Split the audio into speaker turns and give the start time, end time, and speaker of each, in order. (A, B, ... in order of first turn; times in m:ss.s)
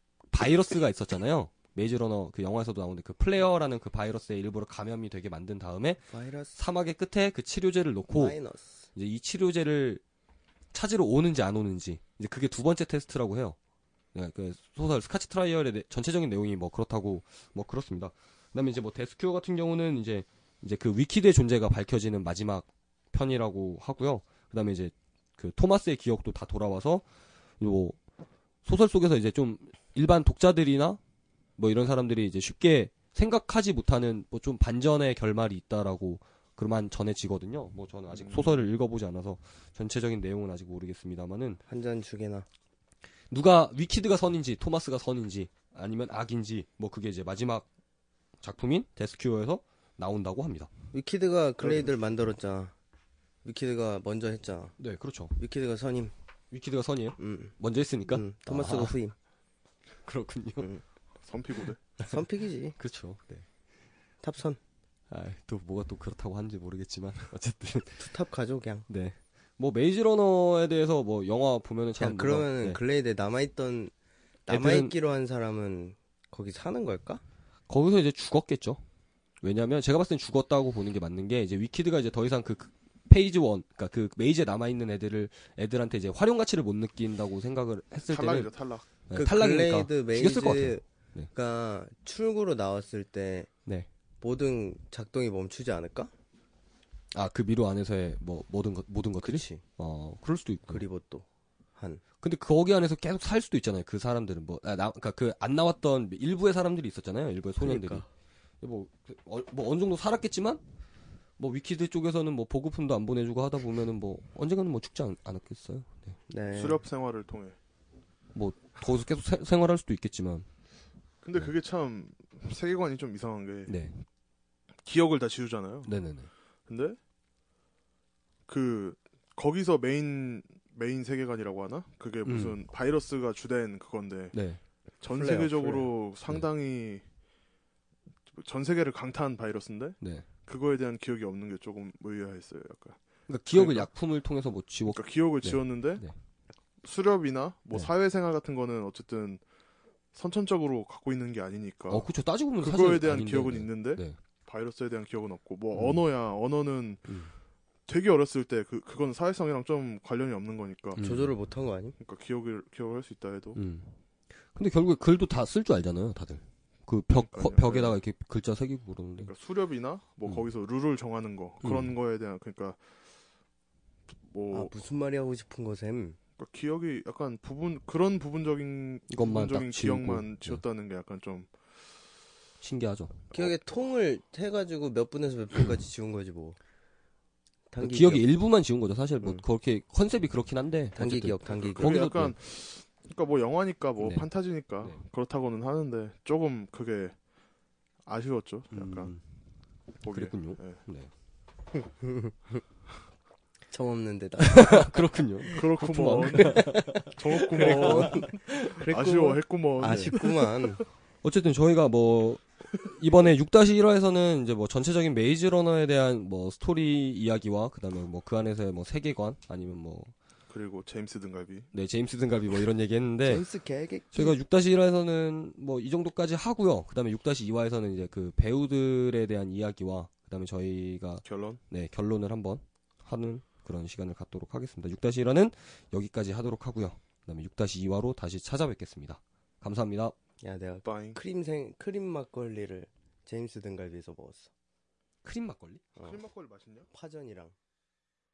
0:00.3-0:08.4 A
0:06.1-0:06.5 B
0:08.1-0:08.8 B
0:08.9-0:10.0 A
0:10.7-0:13.6 A
0:14.1-0:27.0 A
0:27.6-0:28.0 A
0:28.6-0:31.0 A
0:31.6-0:41.6 A
0:38.1-0:38.6 C
0:41.7-0:42.4 B
0:43.3-0:47.6 A
0:48.4-0:50.7 A
0:50.9-0:52.7 B
0:53.4-0:54.8 B
0:54.8-0:55.4 A
0:55.4-0:56.1 B
0:56.5-0:59.0 A
0:57.2-0:57.5 B
0:58.1-0:59.1 B
1:00.0-1:00.7 A
1:01.2-1:01.8 C
1:02.0-1:02.8 B
1:02.8-1:03.4 A
1:04.2-1:04.6 B
1:05.1-1:08.1 A
1:08.0-1:08.8 B
1:08.9-1:12.8 A
1:12.0-1:13.9 B
1:14.5-1:17.2 B
1:14.5-1:14.9 A
1:17.7-1:18.8 A
1:19.4-1:28.5 A
1:28.1-1:28.9 C
1:29.1-1:31.3 A
1:29.1-1:33.5 B
1:34.2-1:36.1 B
1:37.1-1:40.8 A
1:39.2-1:39.6 B
1:40.7-1:41.2 B
1:41.8-1:42.0 B
1:42.2-1:48.0 A
1:47.6-1:48.0 B
1:48.6-1:50.6 A
1:51.4-1:56.2 A
1:56.3-1:56.8 B
1:56.5-1:57.6 C
1:58.3-2:00.5 A
2:01.2-2:03.7 C
2:03.7-2:03.9 A
2:04.8-2:05.9 C
2:05.8-2:06.3 A
2:06.7-2:07.0 C
2:08.5-2:14.4 C
2:12.2-2:12.6 A
2:14.3-2:14.6 A
2:15.0-2:17.0 C
2:15.1-2:15.9 B
2:18.3-2:23.0 C
2:23.3-2:26.1 A
2:23.5-2:23.9 C
2:24.9-2:26.0 C
2:26.8-2:29.4 C
2:30.1-2:32.1 C
2:31.9-2:34.2 A
2:32.6-2:37.1 C
2:35.7-2:36.0 A
2:37.9-2:41.0 C
2:41.0-2:41.3 A
2:41.0-2:42.0 B
2:42.0-2:43.6 C
2:43.6-2:43.9 A
2:44.5-2:49.3 A
2:47.1-2:48.0 C
2:49.2-2:52.8 C
2:51.6-2:51.9 A
2:54.2-2:54.7 C
2:54.5-2:56.2 B
2:56.4-3:01.5 C
2:59.1-3:00.6 A
3:02.6-3:03.2 A
3:03.3-3:06.6 B
3:07.7-3:08.2 B
3:07.8-3:12.3 A
3:11.0-3:12.0 B
3:11.5-3:17.2 C
3:14.0-3:14.2 A
3:18.0-3:19.1 C
3:18.7-3:19.2 A
3:20.0-3:20.8 C
3:20.1-3:21.1 A
3:21.8-3:22.6 B
3:23.7-3:25.0 B
3:24.4-3:28.2 A
3:25.5-3:30.6 C
3:26.0-3:30.8 B
3:29.8-3:30.1 A
3:31.2-3:40.1 A
3:40.5-3:41.7 C
3:41.7-3:43.4 A
3:43.2-3:44.4 B
3:44.1-4:00.1 A
3:51.2-3:51.6 C
4:00.4-4:04.5 B
4:00.8-4:01.2 C
4:05.2-4:05.8 A
4:06.0-4:06.9 C
4:06.9-4:07.5 B